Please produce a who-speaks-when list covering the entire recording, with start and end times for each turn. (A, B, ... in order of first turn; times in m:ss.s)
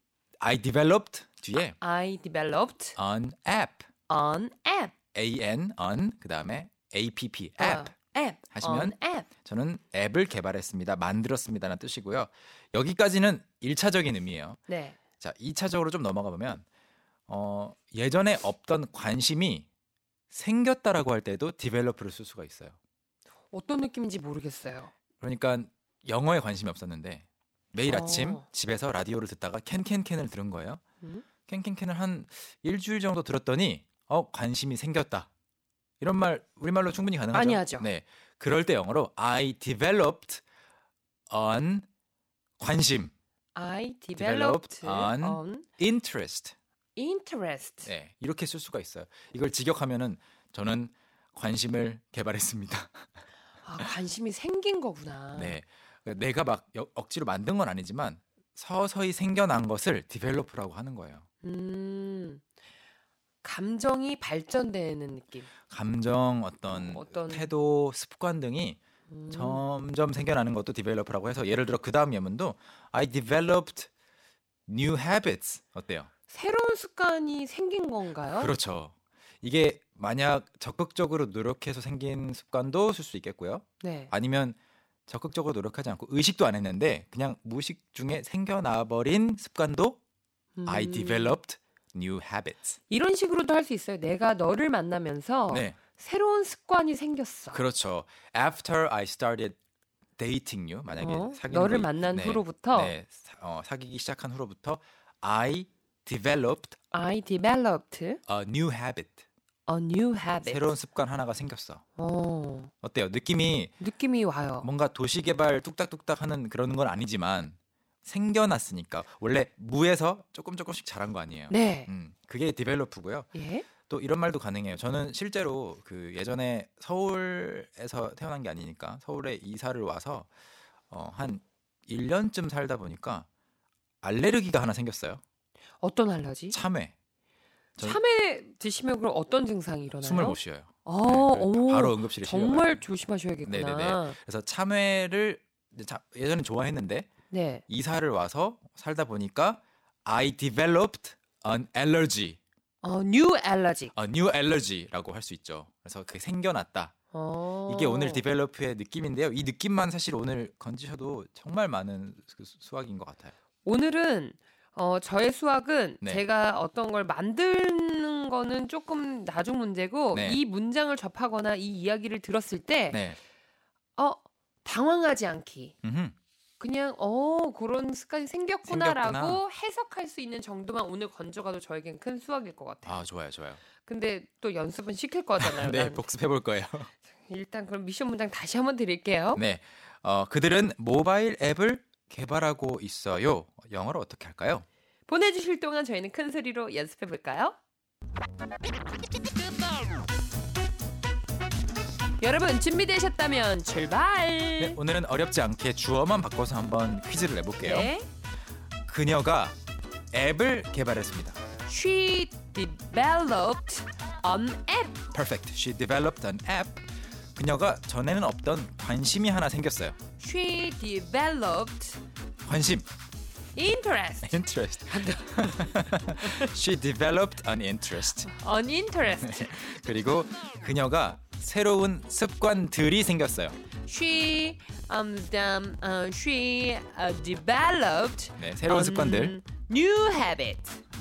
0:00.4-0:01.8 A
0:01.8-0:03.0 B
0:03.0-0:03.8 A
0:04.1-0:04.9 B
0:05.1-0:07.9 A
0:07.6-0:09.3 B
0:08.5-0:14.6 A
0:14.7-0:15.0 B
0:15.2-0:16.6 A
0:17.3-0:19.7 A
0:20.3-0:22.8 A
0:23.5-0:24.9 B
0:25.2-0:30.8 A
0:27.8-0:28.4 B
0:31.5-0:35.3 A
0:36.0-0:40.4 A
0:37.3-0:37.9 B
0:41.3-0:41.8 A
0:42.6-0:43.1 A
0:43.5-0:45.7 B
0:44.2-0:46.5 A
0:47.0-0:47.9 B
0:47.8-0:53.1 A
0:53.6-0:55.6 B
0:55.3-1:01.2 A
1:01.4-1:02.4 B
1:03.4-1:05.5 B
1:05.7-1:08.8 A
1:06.7-1:07.5 B
1:09.1-1:09.6 B
1:09.3-1:13.9 A
1:14.7-1:16.1 A
1:16.3-1:18.5 B
1:18.3-1:24.6 A
1:23.8-1:24.1 B
1:25.1-1:30.0 A
1:30.6-1:31.4 B
1:30.6-1:32.8 A
1:32.9-1:37.6 B
1:35.5-1:35.8 A
1:37.5-1:39.6 A
1:40.2-1:46.8 A
1:41.0-1:43.0 B
1:46.9-1:48.2 B
1:48.3-1:49.2 A
1:49.7-1:50.6 B
1:50.4-1:51.8 A
1:52.0-1:52.7 B
1:52.8-1:53.8 A
1:53.8-1:54.7 B
1:54.6-2:03.3 A
2:01.5-2:01.9 B
2:03.3-2:03.6 B
2:03.9-2:10.3 A
2:10.9-2:13.3 A
2:14.0-2:15.2 A
2:15.8-2:16.6 B
2:16.5-2:16.9 A
2:17.8-2:24.2 B
2:20.0-2:22.8 A
2:23.4-2:27.1 A
2:27.3-2:27.6 B
2:27.7-2:32.4 A
2:32.8-2:33.9 B
2:33.9-2:36.9 A
2:37.1-2:38.2 B
2:37.7-2:43.3 A
2:43.6-2:53.0 B
2:50.1-2:50.4 A
2:52.9-2:53.2 A
2:54.0-2:55.7 B
2:55.8-2:56.2 A
2:56.6-3:03.0 B
2:58.6-2:59.4 A
3:02.8-3:03.6 A
3:03.8-3:06.0 B
3:05.4-3:06.9 A
3:07.2-3:09.4 B
3:09.4-3:14.6 A
3:15.1-3:17.6 B
3:22.2-3:24.8 B
3:24.6-3:27.9 A
3:27.6-3:28.1 B
3:28.9-3:29.5 A
3:30.1-3:31.4 A
3:31.6-3:35.0 B
3:35.1-3:36.8 A
3:37.4-3:40.0 A
3:40.2-3:42.0 B
3:42.4-3:42.9 A
3:43.5-3:46.5 B
3:44.2-3:48.3 A
3:48.2-3:49.6 B
3:49.2-3:53.6 A
3:53.8-4:00.8 B
3:58.4-3:59.4 A